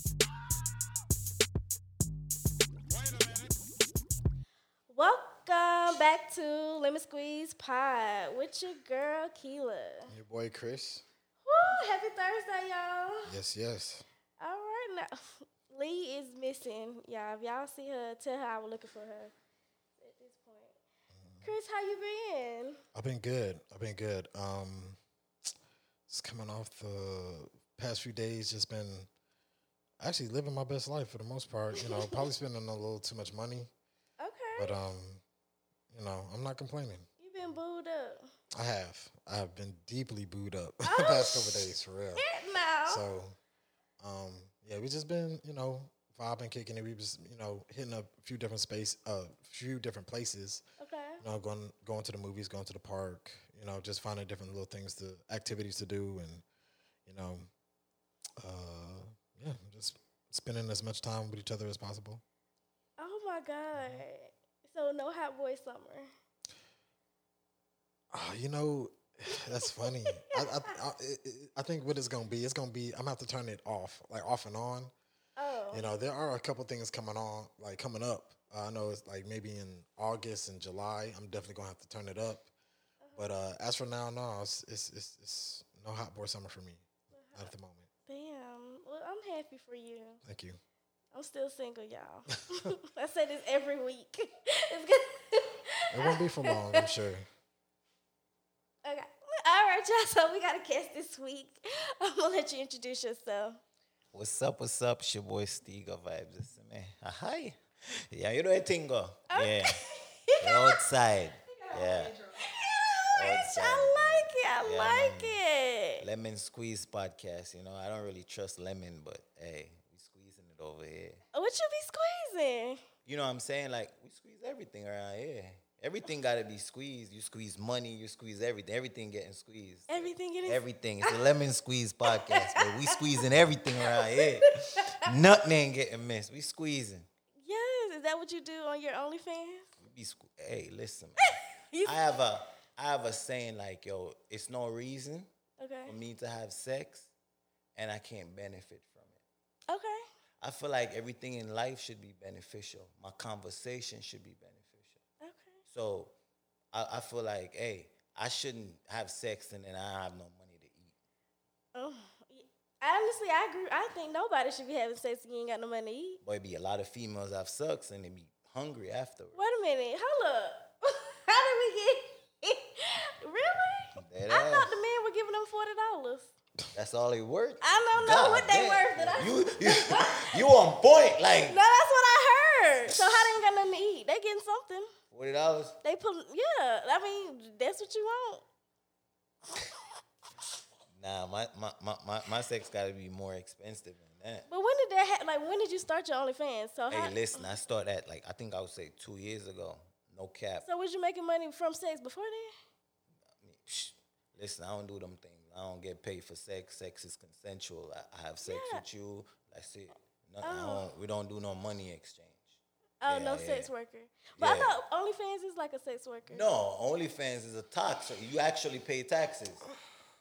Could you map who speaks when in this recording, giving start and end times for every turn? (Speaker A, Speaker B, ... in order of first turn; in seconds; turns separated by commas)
Speaker A: 4.9-10.1, Speaker B: 10.1-11.0, Speaker A: 11.4-13.3, Speaker B: 13.2-14.0, Speaker A: 14.4-19.3, Speaker A: 20.0-20.8, Speaker B: 21.1-21.5, Speaker A: 21.4-22.8, Speaker B: 22.9-25.0, Speaker B: 26.1-29.1, Speaker B: 30.0-33.7, Speaker A: 31.8-32.3, Speaker A: 34.2-34.8, Speaker B: 34.6-35.2, Speaker B: 35.9-37.1, Speaker A: 37.2-38.3, Speaker B: 38.5-42.2, Speaker A: 40.8-43.0, Speaker B: 42.9-43.4, Speaker B: 44.0-50.6, Speaker A: 50.8-51.2, Speaker B: 51.2-56.4, Speaker B: 57.0-57.5, Speaker B: 58.4-62.2, Speaker A: 63.0-66.1, Speaker B: 68.1-74.9, Speaker A: 69.3-70.7, Speaker A: 75.4-75.8, Speaker B: 75.7-82.5, Speaker A: 83.0-83.3, Speaker B: 83.2-87.9, Speaker A: 87.1-87.5, Speaker A: 88.1-90.2, Speaker B: 90.2-90.6, Speaker A: 91.1-96.9, Speaker B: 95.9-97.3, Speaker A: 98.8-103.6, Speaker C: 104.1-109.9, Speaker A: 109.3-110.8, Speaker C: 110.4-112.2, Speaker A: 111.8-116.0, Speaker C: 113.1-115.4, Speaker C: 116.0-121.2, Speaker A: 121.3-122.8, Speaker C: 123.0-137.1, Speaker A: 129.9-131.2, Speaker A: 132.1-133.2, Speaker A: 133.8-135.1, Speaker A: 137.4-139.7, Speaker C: 139.8-145.3, Speaker A: 141.2-142.1, Speaker A: 145.6-145.9, Speaker C: 145.8-147.1, Speaker C: 147.8-149.2, Speaker A: 149.7-150.0, Speaker C: 150.4-155.0, Speaker A: 155.2-155.6, Speaker C: 155.7-156.1, Speaker C: 156.7-160.9, Speaker A: 161.7-166.2, Speaker C: 166.2-169.4, Speaker A: 169.3-176.3, Speaker C: 174.0-174.7, Speaker C: 176.7-181.6, Speaker A: 177.6-180.4, Speaker A: 181.5-184.9, Speaker C: 182.9-183.3, Speaker C: 185.1-185.8, Speaker A: 185.8-188.4, Speaker C: 190.9-194.5, Speaker A: 194.5-197.5, Speaker C: 196.9-200.7, Speaker A: 200.6-202.5, Speaker C: 203.4-213.7, Speaker A: 208.4-208.8, Speaker A: 210.4-210.8, Speaker A: 213.0-216.4, Speaker C: 214.4-214.7, Speaker C: 216.3-219.7